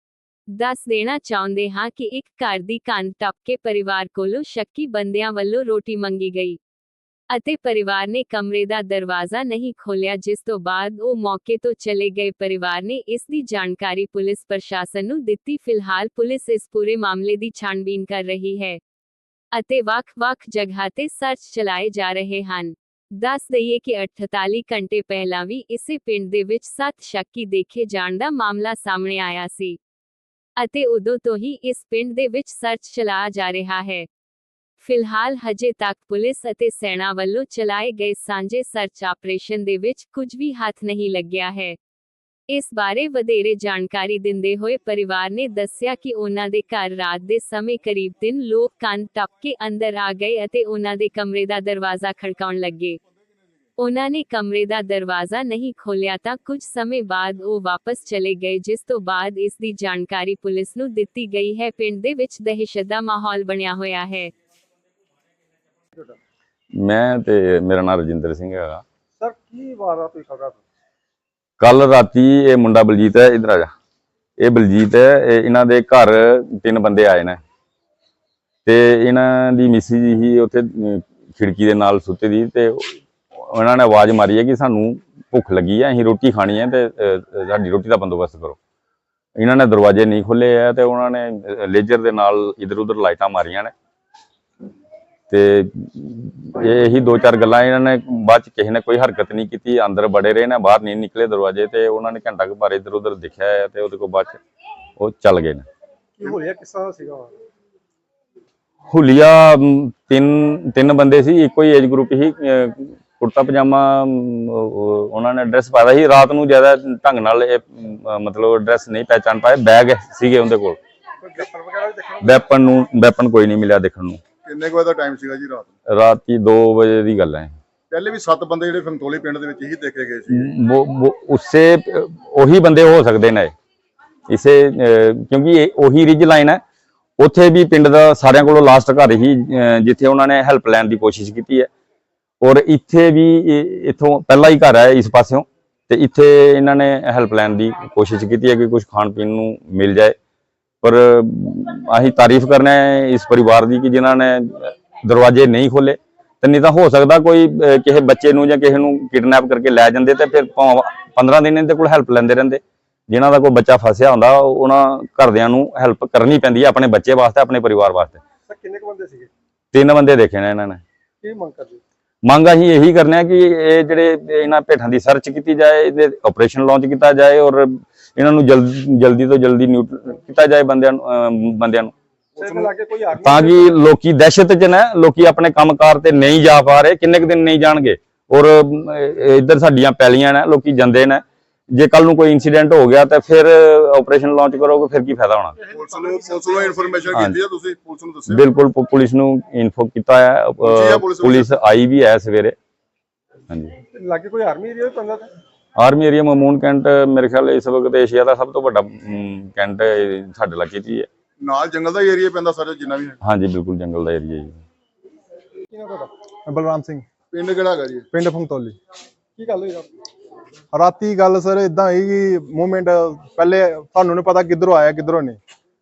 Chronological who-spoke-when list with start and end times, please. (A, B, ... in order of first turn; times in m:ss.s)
0:00.5-0:06.6 A
0:07.3-0:18.8 A
0:19.5-0:29.8 A
0:30.6-0:34.1 A
0:34.8-0:41.8 A
0:42.5-0:53.0 A
0:53.8-1:04.3 A
1:06.8-1:08.8 B
1:09.2-1:10.6 C
1:11.6-1:13.7 B
1:14.4-1:17.4 B
1:18.6-1:28.6 B
1:29.4-1:33.7 B
1:35.3-1:44.4 B
1:45.0-1:45.6 B
1:46.2-1:47.4 C
1:48.9-2:00.8 B
2:01.2-2:02.4 C
2:02.2-2:04.2 B
2:04.5-2:05.7 D
2:05.9-2:07.6 B
2:07.9-2:10.5 D
2:10.3-2:13.5 B
2:14.3-2:16.6 B
2:17.2-2:21.7 B
2:22.4-2:30.2 B
2:30.8-2:48.2 B
2:48.5-2:49.3 C
2:49.7-2:50.8 B
2:51.2-2:51.8 C
2:52.2-3:15.6 B
3:02.4-3:03.8 C
3:15.7-3:18.5 D
3:15.9-3:16.8 C
3:17.1-3:17.4 B
3:18.3-3:22.6 B
3:20.6-3:21.6 D
3:23.5-3:23.8 B
3:23.9-3:25.3 C
3:25.8-3:31.1 B
3:31.4-3:33.2 D
3:33.2-3:34.6 B
3:35.7-3:36.1 C
3:36.5-3:37.1 E
3:37.3-3:38.1 D
3:38.1-3:38.8 E
3:39.4-3:39.9 C
3:40.7-3:45.4 E